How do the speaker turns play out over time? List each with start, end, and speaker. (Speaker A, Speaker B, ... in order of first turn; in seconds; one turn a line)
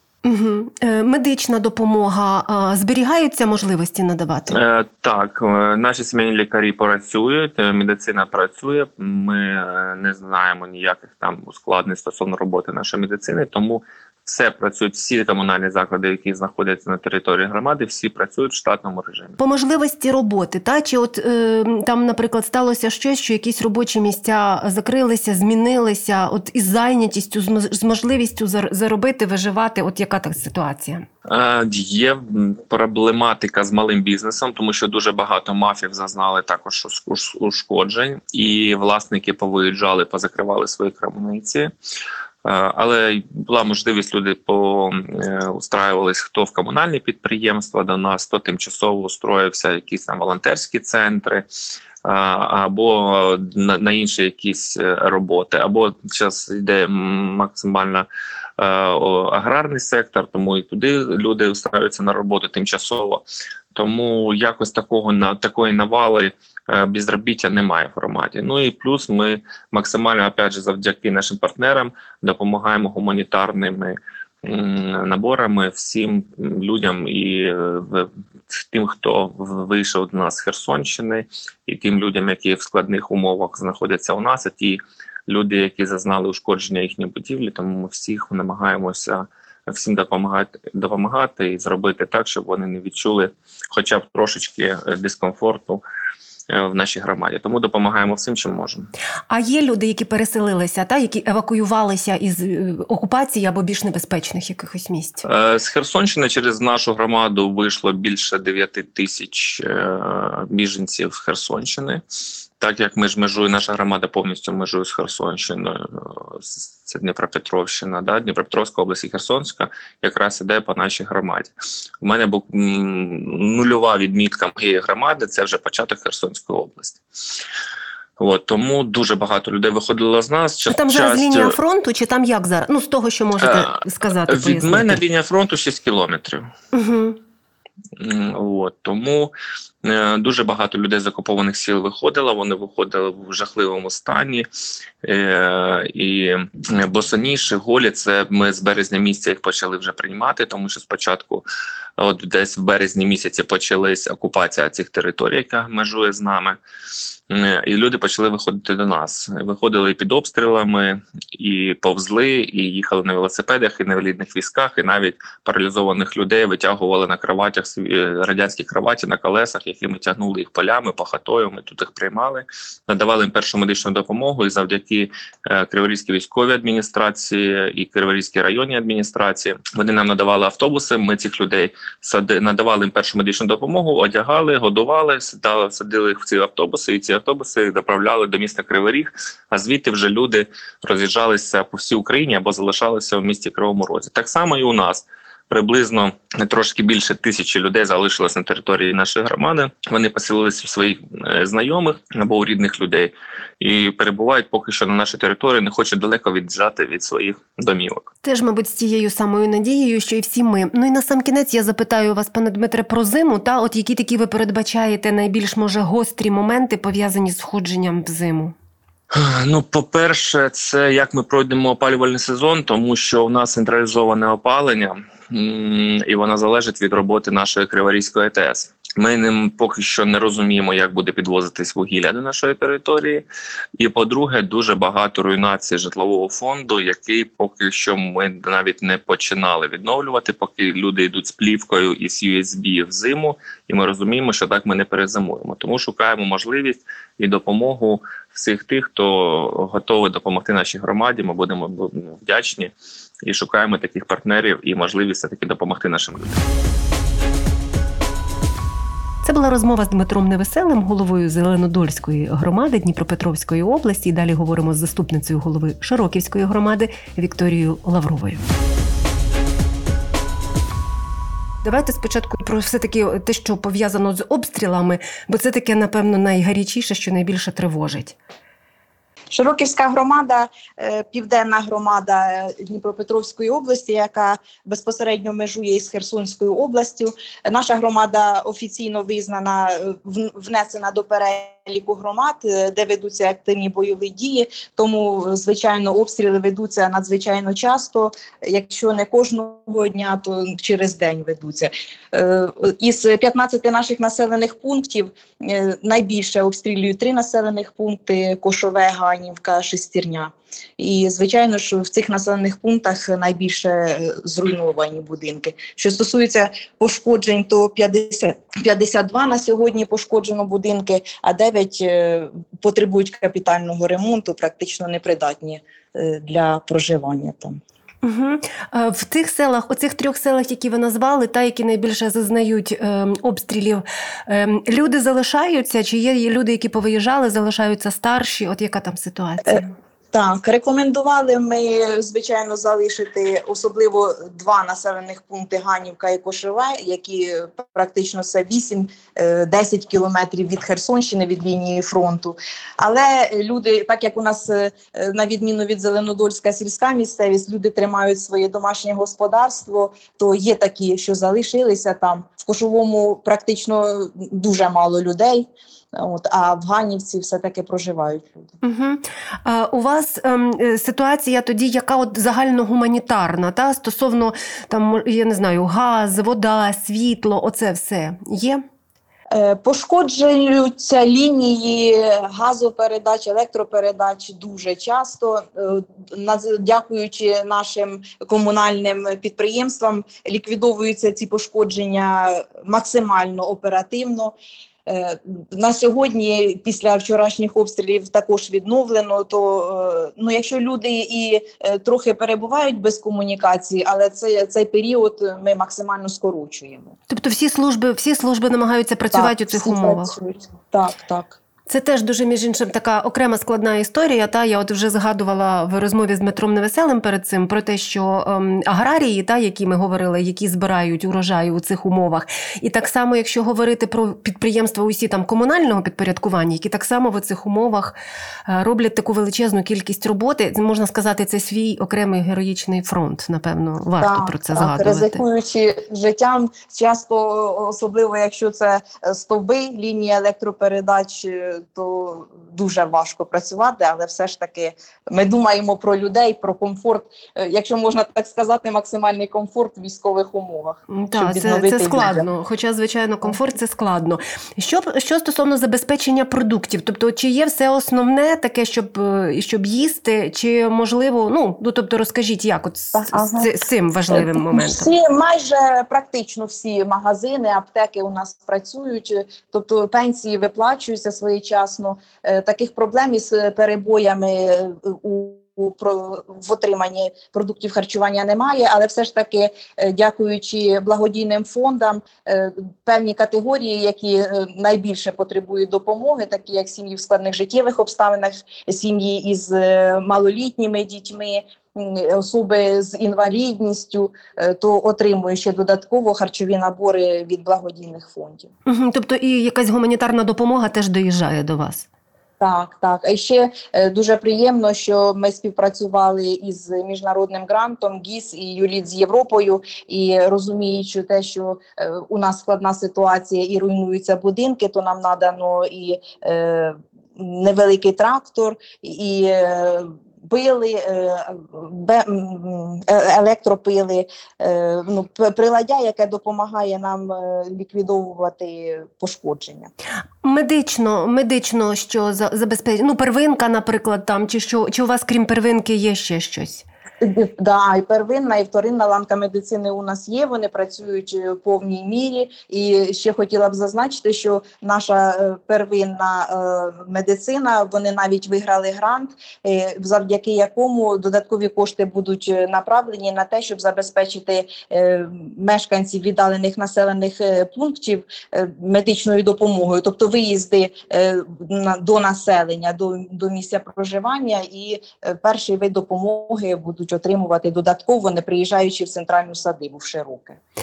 Speaker A: 0.2-4.6
Speaker B: 4.5-19.4
Speaker A: 19.4-31.0
Speaker B: 31.3-41.7
Speaker B: 42.4-51.5
Speaker B: 52.0-58.1
Speaker B: 58.6-63.2
Speaker B: 63.8-95.8
Speaker B: 96.5-98.9
Speaker A: 99.3-105.2
Speaker B: 105.2-112.0
Speaker B: 112.6-127.0
Speaker B: 128.2-131.5
Speaker A: 130.7-135.0
Speaker B: 133.4-133.7
Speaker B: 134.3-136.5
Speaker A: 136.7-137.2
Speaker B: 138.0-144.5
Speaker B: 145.0-151.4
Speaker B: 152.0-156.6
Speaker B: 157.3-208.1
Speaker A: 208.2-218.5
Speaker B: 219.1-233.2
Speaker B: 233.8-252.7
Speaker B: 253.2-256.4
Speaker A: 259.2-268.4
Speaker A: 271.6-278.1
Speaker C: 279.3-327.6
Speaker A: 328.0-339.7
Speaker C: 339.5-368.5
Speaker A: 368.6-378.6
Speaker C: 379.3-394.4
Speaker C: 394.9-406.9
Speaker A: 407.1-410.1
Speaker C: 409.1-411.4
Speaker A: 411.7-427.9
Speaker A: 428.5-435.2
Speaker C: 434.0-452.2
Speaker A: 450.9-464.9
Speaker C: 462.9-463.5
Speaker C: 464.1-498.5
Speaker A: 498.6-501.9
Speaker C: 502.4-529.7
Speaker A: 530.2-536.6
Speaker C: 537.0-570.4